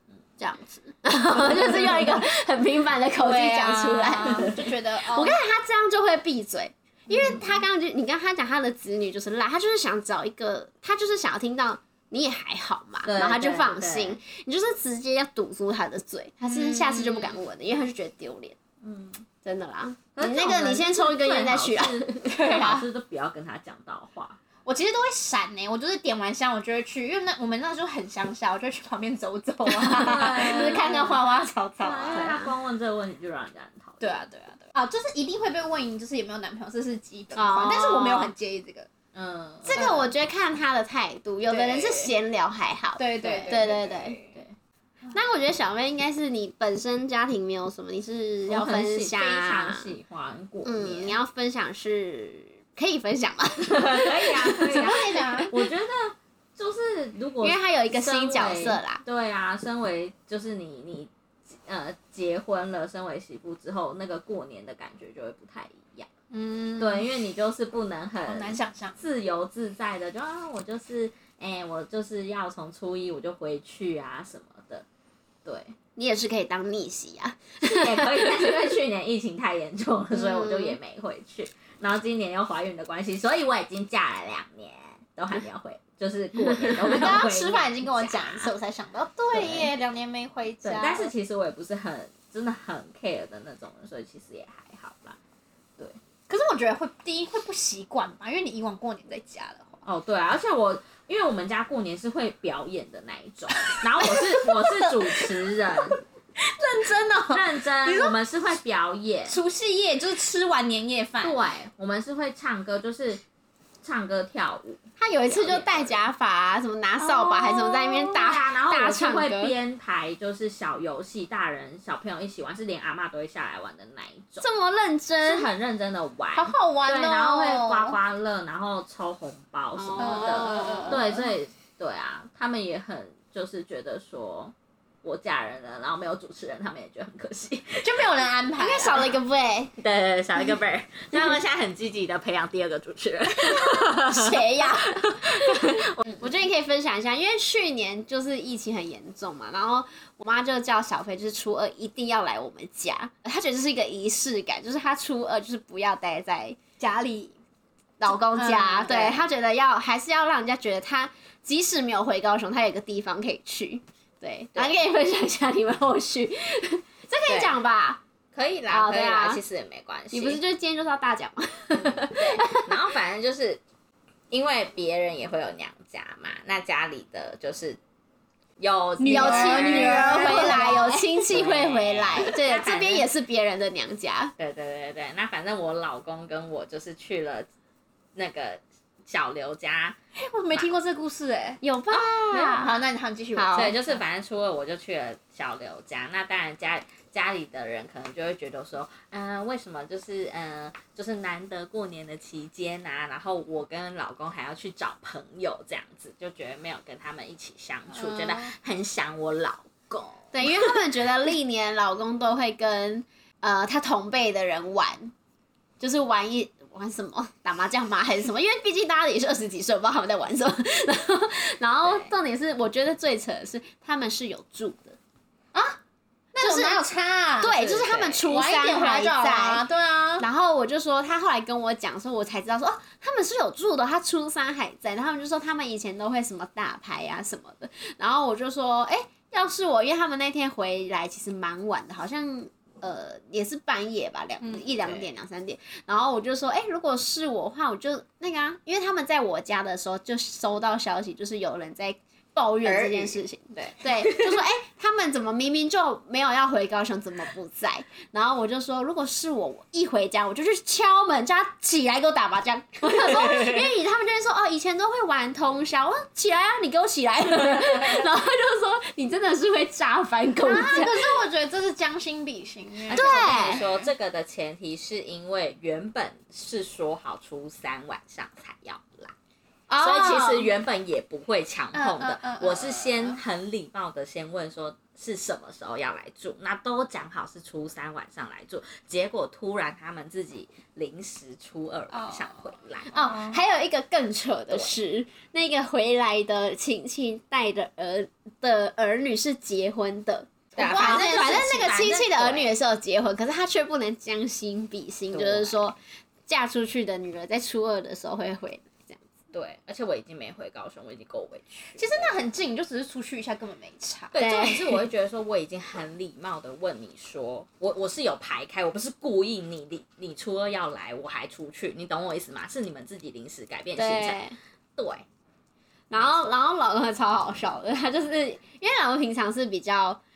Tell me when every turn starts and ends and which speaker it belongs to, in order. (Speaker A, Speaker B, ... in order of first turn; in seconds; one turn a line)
Speaker A: 0.4-4.5
Speaker B: 3.2-5.4
Speaker C: 4.3-4.5
Speaker A: 5.1-18.6
Speaker C: 13.0-14.2
Speaker B: 16.7-17.2
Speaker C: 18.8-19.2
Speaker A: 19.4-22.8
Speaker C: 20.1-24.4
Speaker B: 24.6-32.5
Speaker C: 29.8-30.9
Speaker A: 30.1-31.2
Speaker C: 31.8-34.2
Speaker A: 32.0-32.5
Speaker B: 34.0-38.9
Speaker A: 37.3-38.3
Speaker C: 39.1-39.9
Speaker A: 39.6-44.2
Speaker B: 39.7-40.1
Speaker B: 41.4-42.1
Speaker B: 43.0-44.3
Speaker C: 43.3-43.7
Speaker C: 44.3-44.5
Speaker A: 45.1-49.9
Speaker C: 48.5-51.2
Speaker A: 50.6-55.5
Speaker C: 53.7-66.1
Speaker B: 54.6-55.5
Speaker A: 57.4-59.0
Speaker B: 66.3-67.1
Speaker C: 66.8-74.8
Speaker B: 68.3-69.0
Speaker C: 75.4-75.7
Speaker A: 76.0-78.7
Speaker C: 77.6-88.5
Speaker A: 80.3-80.7
Speaker B: 86.8-91.1
Speaker C: 89.3-89.7
Speaker C: 90.6-95.2
Speaker B: 96.3-99.8
Speaker C: 99.8-106.0
Speaker B: 103.8-108.2
Speaker C: 107.3-109.4
Speaker B: 109.3-111.5
Speaker C: 111.2-113.2
Speaker C: 113.8-116.0
Speaker A: 115.0-119.5
Speaker C: 117.3-124.5
Speaker A: 124.4-125.5
Speaker C: 125.2-138.1
Speaker B: 126.3-128.0
Speaker A: 129.8-131.1
Speaker B: 130.0-131.2
Speaker B: 137.8-139.2
Speaker A: 138.6-139.7
Speaker C: 139.8-146.2
Speaker B: 143.5-143.8
Speaker A: 143.9-156.6
Speaker B: 156.8-157.3
Speaker A: 158.0-168.0
Speaker B: 158.0-159.2
Speaker C: 167.3-167.6
Speaker C: 168.3-170.4
Speaker A: 168.7-169.4
Speaker A: 170.1-172.8
Speaker C: 171.7-173.6
Speaker C: 174.3-177.8
Speaker C: 178.6-183.1
Speaker B: 179.0-181.2
Speaker A: 179.0-184.3
Speaker C: 184.4-187.5
Speaker C: 188.1-190.0
Speaker B: 190.1-191.6
Speaker A: 191.6-192.7
Speaker B: 192.3-194.0
Speaker A: 193.3-193.7
Speaker C: 193.5-210.8
Speaker B: 207.9-208.5
Speaker A: 210.3-215.1
Speaker A: 215.8-225.0
Speaker C: 221.8-222.1
Speaker B: 225.5-225.8
Speaker B: 226.3-227.7
Speaker A: 226.4-226.8
Speaker A: 227.4-229.7
Speaker C: 227.5-228.2
Speaker B: 228.3-230.2
Speaker A: 230.2-271.1
Speaker B: 244.4-245.0
Speaker B: 252.7-253.1
Speaker B: 270.4-273.9
Speaker A: 272.9-273.6
Speaker C: 272.9-279.1
Speaker A: 279.7-280.5
Speaker C: 279.8-293.1
Speaker B: 281.7-283.2
Speaker B: 291.9-292.3
Speaker A: 292.9-309.0
Speaker B: 292.9-293.4
Speaker C: 294.5-294.7
Speaker B: 300.6-301.8
Speaker C: 300.6-302.5
Speaker C: 305.1-305.6
Speaker C: 309.3-312.1
Speaker B: 311.8-314.1
Speaker C: 314.1-324.2
Speaker A: 314.1-314.8
Speaker A: 323.8-324.4
Speaker C: 324.8-325.0
Speaker A: 325.9-330.0
Speaker C: 325.9-326.3